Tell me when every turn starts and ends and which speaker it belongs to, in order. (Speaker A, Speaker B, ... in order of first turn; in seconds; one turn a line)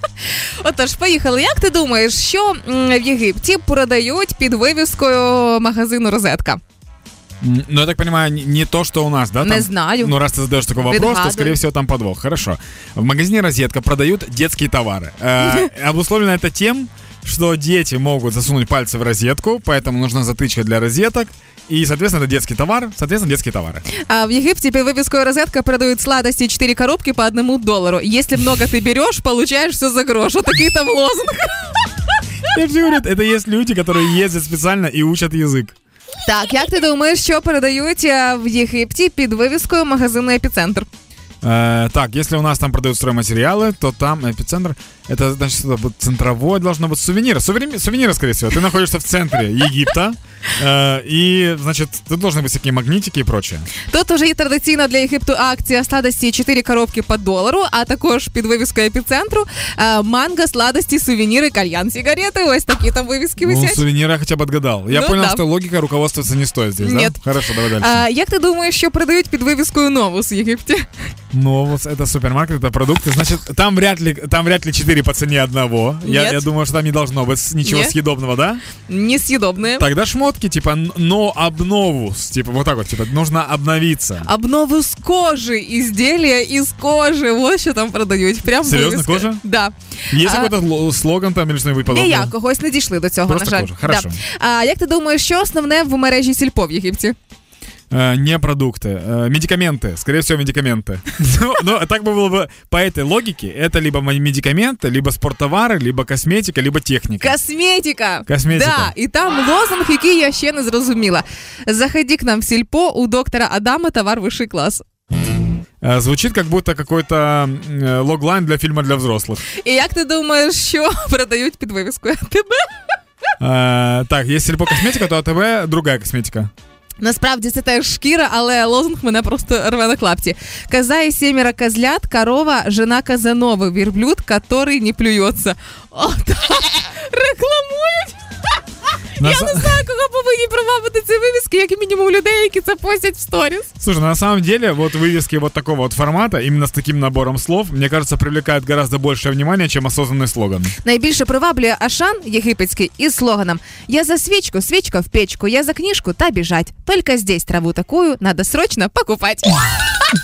Speaker A: 0.6-6.6
Speaker B: 7.4-23.8
Speaker A: 9.4-10.2
Speaker A: 10.8-11.6
Speaker A: 15.4-15.7
Speaker A: 23.9-31.7
Speaker B: 32.5-35.8
Speaker A: 36.2-40.9
Speaker B: 41.4-53.7
Speaker A: 53.9-63.8
Speaker B: 63.4-68.0
Speaker A: 64.9-65.4
Speaker A: 66.8-67.2
Speaker A: 67.7-70.9
Speaker B: 71.3-78.6
Speaker A: 76.0-76.4
Speaker A: 77.6-77.9
Speaker A: 78.8-79.9
Speaker B: 79.8-84.3
Speaker A: 84.2-90.5
Speaker B: 88.6-89.4
Speaker B: 90.1-92.3
Speaker A: 91.9-97.2
Speaker B: 93.3-94.2
Speaker B: 97.9-107.3
Speaker A: 107.2-114.8
Speaker B: 108.3-108.9
Speaker B: 115.8-119.4
Speaker A: 119.5-122.7
Speaker B: 123.4-126.5
Speaker A: 127.0-138.2
Speaker B: 139.2-139.8
Speaker A: 139.2-143.7
Speaker B: 143.8-150.7
Speaker A: 150.8-159.6